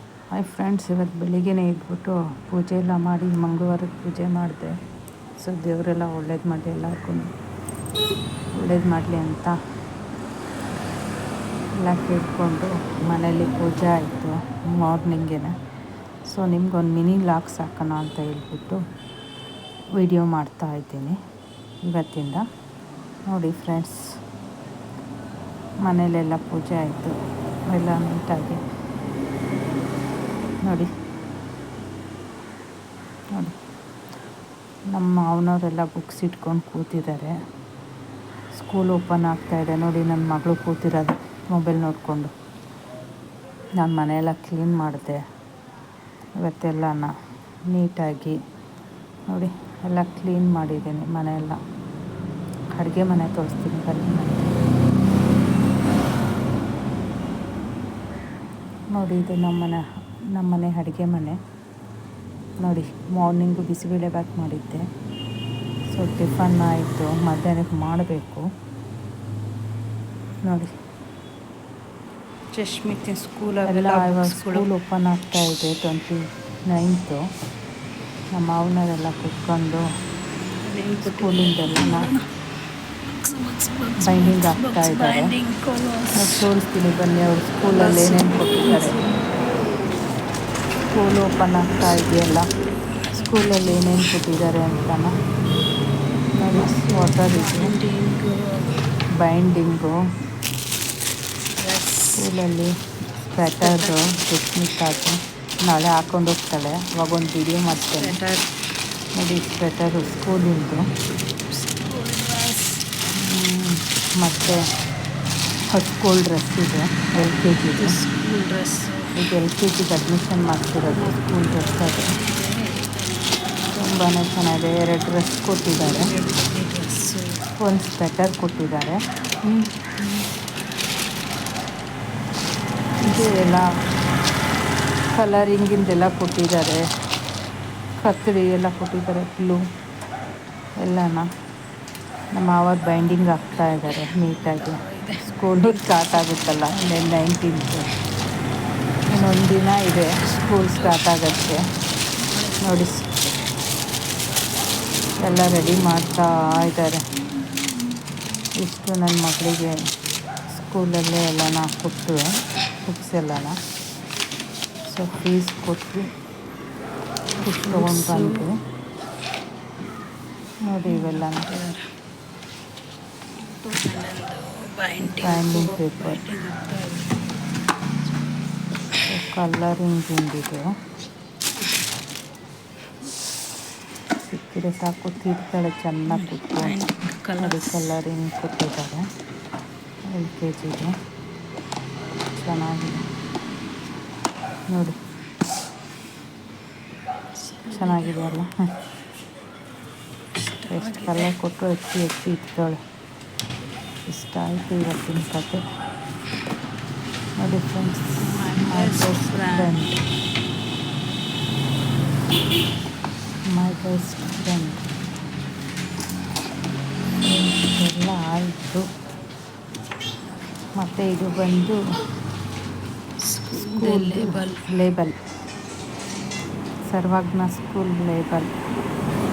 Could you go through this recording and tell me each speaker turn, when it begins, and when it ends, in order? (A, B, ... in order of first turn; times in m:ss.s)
0:00.3-0:04.8 A
0:05.4-0:07.3 A
0:08.6-0:09.6 A
0:11.8-0:15.5 A
0:16.3-0:18.8 A
0:19.9-0:21.2 A
0:21.8-0:22.4 A
0:23.3-0:24.0 A
0:25.8-0:27.2 A
0:27.7-0:28.6 A
0:30.6-0:30.9 A
0:34.9-0:37.3 A
0:38.5-0:42.3 A
0:43.8-0:45.2 A
0:46.4-0:47.1 A
0:47.7-0:48.4 A
0:49.3-0:51.6 A
0:52.8-0:54.5 A
0:58.9-0:59.8 A
1:00.3-1:01.4 A
1:02.6-1:04.8 A
1:05.9-1:08.4 A
1:10.4-1:10.7 A
1:12.5-1:14.7 B
1:13.6-1:17.2 A
1:18.3-1:19.8 A
1:20.6-1:22.2 B
1:21.0-1:22.1 A
1:23.1-1:26.5 B
1:24.0-1:25.3 A
1:26.1-1:29.0 A
1:27.7-1:29.2 B
1:30.9-1:32.4 A
1:32.9-1:34.0 B
1:33.2-1:35.1 A
1:36.4-1:37.7 A
1:36.5-1:38.7 B
1:39.2-1:40.0 A
1:41.6-1:42.3 B
1:42.2-1:48.2 A
1:43.4-1:44.1 B
1:47.9-1:48.5 B
1:49.2-1:50.8 A
1:51.5-1:52.8 B
1:53.2-1:54.6 A
1:55.7-1:58.0 A
1:57.7-1:59.1 B
1:59.2-2:02.1 A
2:00.9-2:03.4 B
2:03.7-2:06.1 A
2:05.9-2:07.4 B
2:07.6-2:09.0 A
2:09.4-2:10.3 B
2:13.0-2:13.6 A
2:13.1-2:13.6 B
2:15.1-2:16.8 A
2:18.0-2:19.6 A
2:20.8-2:21.3 A
2:22.3-2:27.9 A
2:24.0-2:26.3 B
2:29.1-2:31.6 A
2:30.2-2:31.0 B
2:32.2-2:32.9 B
2:32.6-2:33.3 A
2:35.2-2:37.0 A
2:38.6-2:39.8 A
2:40.5-2:43.6 A
2:44.9-2:46.1 A
2:47.4-2:48.6 A
2:47.5-2:48.4 B
2:50.7-2:51.5 A
2:50.9-2:51.8 B
2:53.4-2:57.2 B
2:55.0-2:56.2 A
2:59.0-3:00.7 A
3:04.3-3:06.8 A
3:06.1-3:07.9 B
3:07.4-3:09.0 A
3:10.1-3:10.9 A
3:12.3-3:13.0 A
3:14.7-3:15.0 A
3:17.4-3:18.2 B
3:17.7-3:18.5 A
3:20.4-3:21.3 B
3:20.7-3:22.8 A
3:24.1-3:25.6 A
3:27.4-3:30.0 A
3:28.2-3:29.8 B
3:33.5-3:34.8 A
3:37.2-3:38.9 A
3:40.8-3:41.8 A
3:43.2-3:44.6 B
3:43.5-3:45.1 A
3:46.9-3:48.5 A